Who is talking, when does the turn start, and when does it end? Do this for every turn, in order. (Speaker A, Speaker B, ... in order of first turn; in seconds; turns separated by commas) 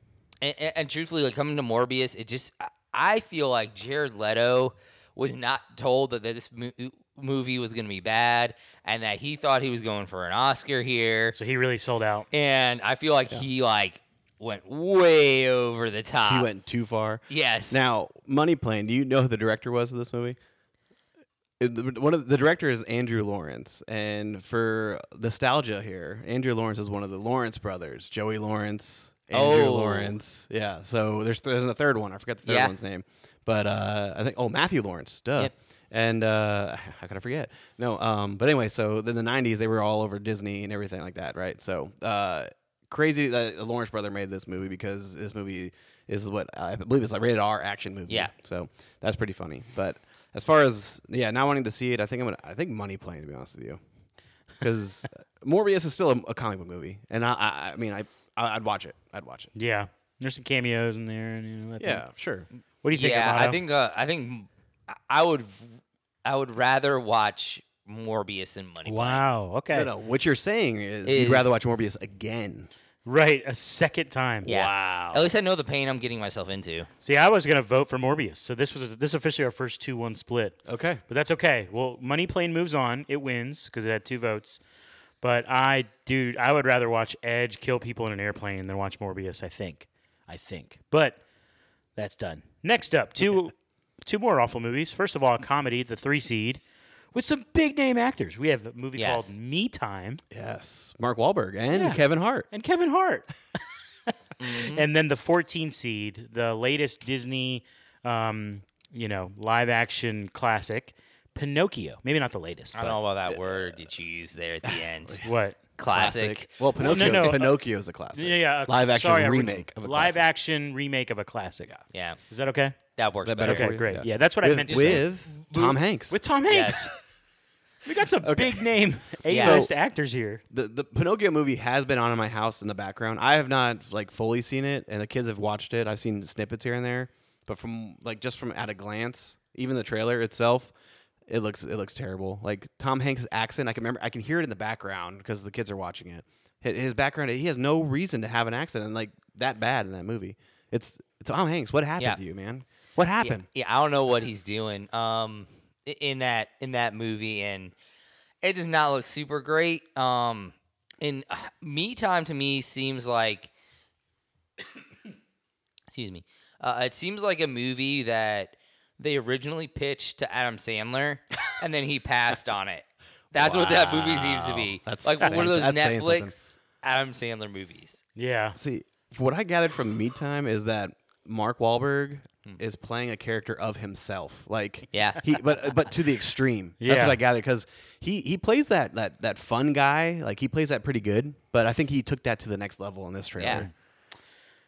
Speaker A: 0.4-11.4, Speaker B: 11.3-12.3, Speaker A: 12.3-16.5, Speaker C: 16.2-20.4, Speaker A: 17.3-17.8, Speaker C: 21.6-53.8, Speaker A: 29.3-30.1, Speaker A: 32.5-32.7, Speaker C: 54.6-59.5, Speaker B: 59.5-62.0, Speaker C: 61.8-62.5, Speaker B: 62.8-63.6, Speaker A: 62.9-69.2, Speaker B: 68.8-69.9, Speaker C: 69.7-72.7, Speaker A: 71.0-71.5, Speaker B: 73.0-74.5, Speaker C: 74.4-75.3, Speaker A: 74.4-76.9, Speaker B: 77.0-80.6, Speaker C: 80.7-81.0, Speaker B: 81.1-84.6, Speaker B: 85.2-91.2, Speaker B: 92.0-93.5, Speaker B: 94.0-96.6, Speaker B: 97.1-100.2, Speaker A: 99.0-99.3, Speaker C: 100.3-102.5, Speaker B: 101.7-103.3, Speaker B: 104.1-113.0, Speaker A: 104.4-104.8, Speaker A: 112.7-115.2, Speaker C: 112.8-113.8, Speaker C: 114.6-115.2, Speaker B: 115.2-115.6, Speaker A: 115.8-117.3, Speaker C: 115.9-120.2, Speaker B: 116.8-117.6, Speaker B: 118.1-121.7, Speaker A: 121.9-122.2, Speaker B: 122.3-122.8, Speaker A: 123.0-123.7, Speaker C: 123.2-126.2, Speaker B: 123.4-125.1, Speaker A: 124.7-125.7, Speaker B: 126.1-126.9, Speaker A: 126.5-126.9, Speaker B: 127.8-130.4, Speaker C: 128.2-128.7, Speaker A: 129.3-129.6, Speaker C: 129.3-129.7, Speaker C: 130.5-140.7, Speaker C: 141.3-153.4, Speaker A: 153.2-157.7, Speaker A: 158.4-163.5, Speaker A: 165.9-178.0, Speaker C: 173.3-176.3, Speaker B: 178.2-178.6, Speaker C: 178.6-193.7, Speaker A: 184.9-185.9, Speaker B: 186.8-187.2, Speaker A: 193.4-193.7, Speaker B: 193.5-193.7